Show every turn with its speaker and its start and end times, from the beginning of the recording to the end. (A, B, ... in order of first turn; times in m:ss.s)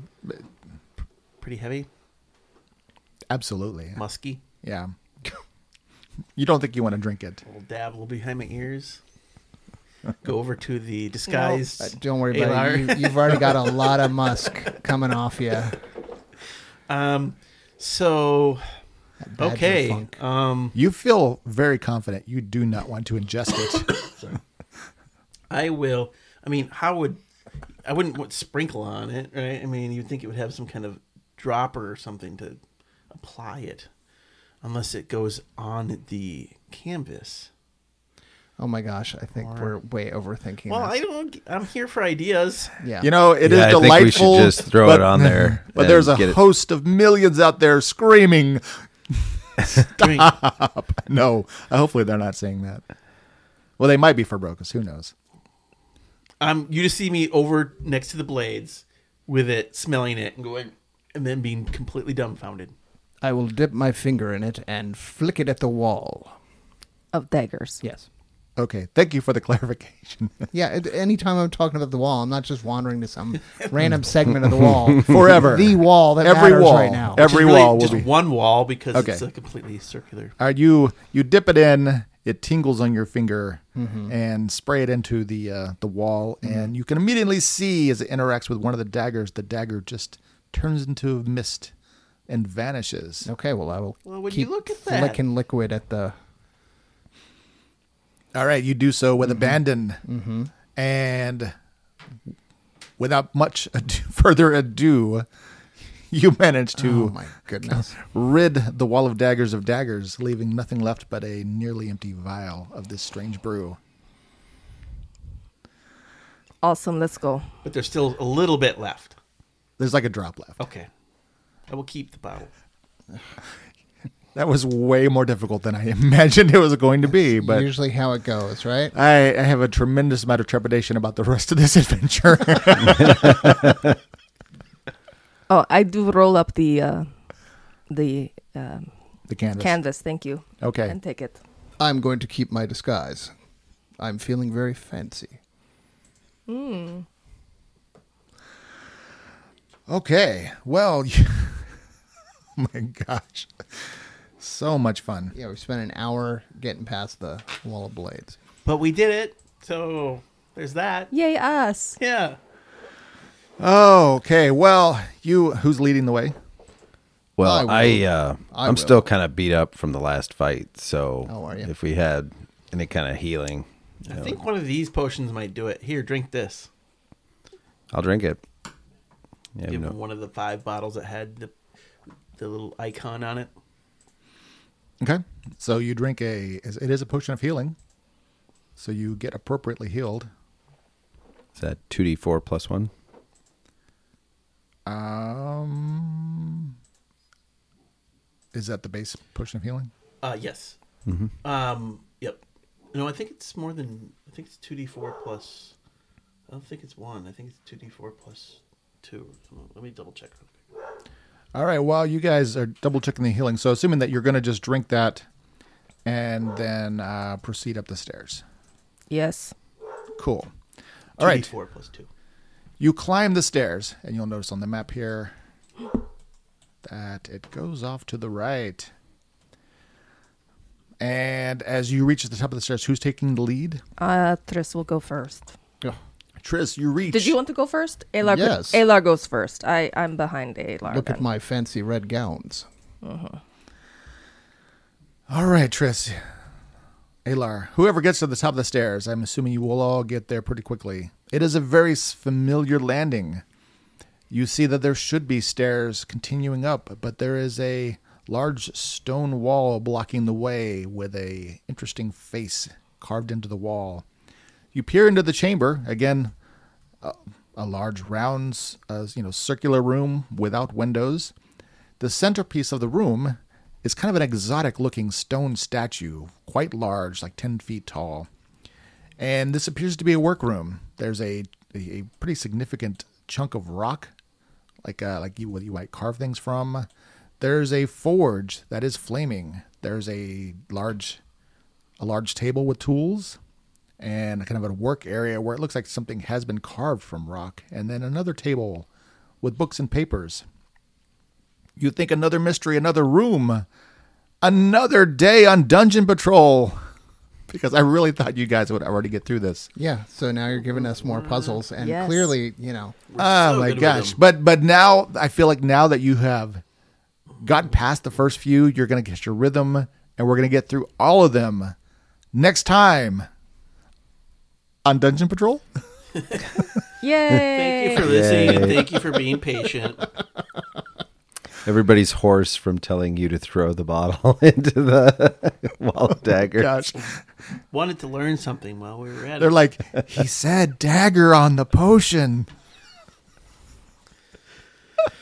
0:01.4-0:01.9 A
0:03.3-0:04.0 B
0:04.0-0:04.4 A
0:04.6-0:04.9 B
0:06.3-0:07.4 B
0:07.4-0:09.0 A
0:10.2-0:13.9 A
0:11.3-0:11.6 C
0:11.8-0:15.8 D
0:16.9-0:18.6 A
0:19.2-0:20.1 D
0:19.4-0:20.8 A
0:20.7-0:24.0 B
0:24.0-0:24.4 A
0:25.5-0:27.2 A
0:27.8-0:32.6 A
0:33.1-0:33.9 A
0:34.6-0:37.5 A
0:38.6-0:40.9 D
0:39.4-0:39.7 A
0:40.6-0:42.7 A
0:42.8-0:43.1 D
0:43.0-0:52.8 B
0:43.4-0:46.4 E
0:49.7-0:50.4 A
0:53.8-0:55.1 B
0:56.4-1:02.7 A
1:03.2-1:06.4 D
1:07.1-1:07.8 C
1:07.8-1:08.1 D
1:08.6-1:10.5 B
1:10.5-1:17.3 D
1:15.0-1:18.1 B
1:17.2-1:20.3 A
1:18.9-1:19.2 B
1:20.4-1:31.7 B
1:23.8-1:24.1 D
1:32.3-1:33.3 B
1:33.2-1:36.1 D
1:34.0-1:35.2 A
1:38.3-1:40.0 B
1:39.3-1:40.5 D
1:40.7-1:41.5 B
1:43.0-1:45.3 B
1:46.1-1:53.8 B
1:46.8-1:48.0 D
1:56.6-1:57.5 C
1:57.6-1:59.2 A
1:59.8-2:00.6 B
2:00.6-2:00.9 A
2:01.7-2:02.5 A
2:04.3-2:07.7 B
2:07.4-2:08.9 D
2:08.9-2:13.8 B
2:13.0-2:13.5 E
2:15.5-2:17.1 C
2:17.9-2:18.9 C
2:19.3-2:19.8 B
2:19.6-2:21.4 C
2:20.6-2:21.0 B
2:21.8-2:23.3 D
2:24.0-2:25.4 D
2:26.5-2:27.0 C
2:29.9-2:31.8 B
2:32.6-2:35.3 B
2:35.3-2:38.4 D
2:38.6-2:41.1 A
2:41.1-2:42.0 C
2:42.0-2:42.4 A
2:43.6-2:46.3 B
2:47.4-2:54.4 E
2:47.4-2:49.1 D
2:51.3-2:51.7 D
2:54.0-2:56.7 A
2:57.9-2:58.4 E
2:59.6-2:59.9 E
2:59.7-3:01.5 A
3:02.4-3:03.5 A
3:05.0-3:07.8 B
3:08.8-3:10.3 B
3:11.6-3:12.9 E
3:14.8-3:16.7 B
3:18.5-3:19.9 B
3:20.2-3:20.8 A
3:21.0-3:21.3 E
3:21.4-3:22.4 A
3:22.9-3:25.7 A
3:26.5-3:30.6 A
3:31.5-3:35.2 B
3:36.0-3:38.4 B
3:39.1-3:39.5 C
3:40.2-3:40.5 B
3:41.2-3:41.5 B
3:41.2-3:42.1 A
3:42.8-3:45.3 B
3:46.8-3:48.9 B
3:51.0-3:53.8 B
3:54.0-3:55.5 C
3:56.4-3:57.4 B
3:57.1-4:01.2 C
3:58.2-3:58.8 D
4:00.9-4:02.7 D
4:03.0-4:03.4 C
4:05.3-4:06.2 B
4:07.2-4:13.4 B
4:14.3-4:24.0 B
4:24.7-4:26.3 B
4:27.0-4:31.3 B
4:32.0-4:38.3 B
4:39.2-4:44.1 B
4:44.8-4:46.9 B
4:47.4-4:51.2 B
4:52.0-4:53.4 B
4:54.0-4:58.9 B
4:59.4-5:00.4 B
5:01.8-5:03.6 B
5:04.4-5:06.8 B
5:07.5-5:09.7 B
5:09.8-5:13.0 D
5:10.7-5:11.6 A
5:11.8-5:12.4 C
5:13.1-5:14.2 A
5:13.2-5:16.6 B
5:17.4-5:21.7 B
5:22.3-5:23.3 B
5:24.8-5:25.6 B
5:27.0-5:28.1 C
5:27.5-5:30.0 A
5:27.9-5:29.0 E
5:31.6-5:36.7 E
5:36.6-5:37.1 B
5:37.7-5:39.5 A
5:39.4-5:42.5 B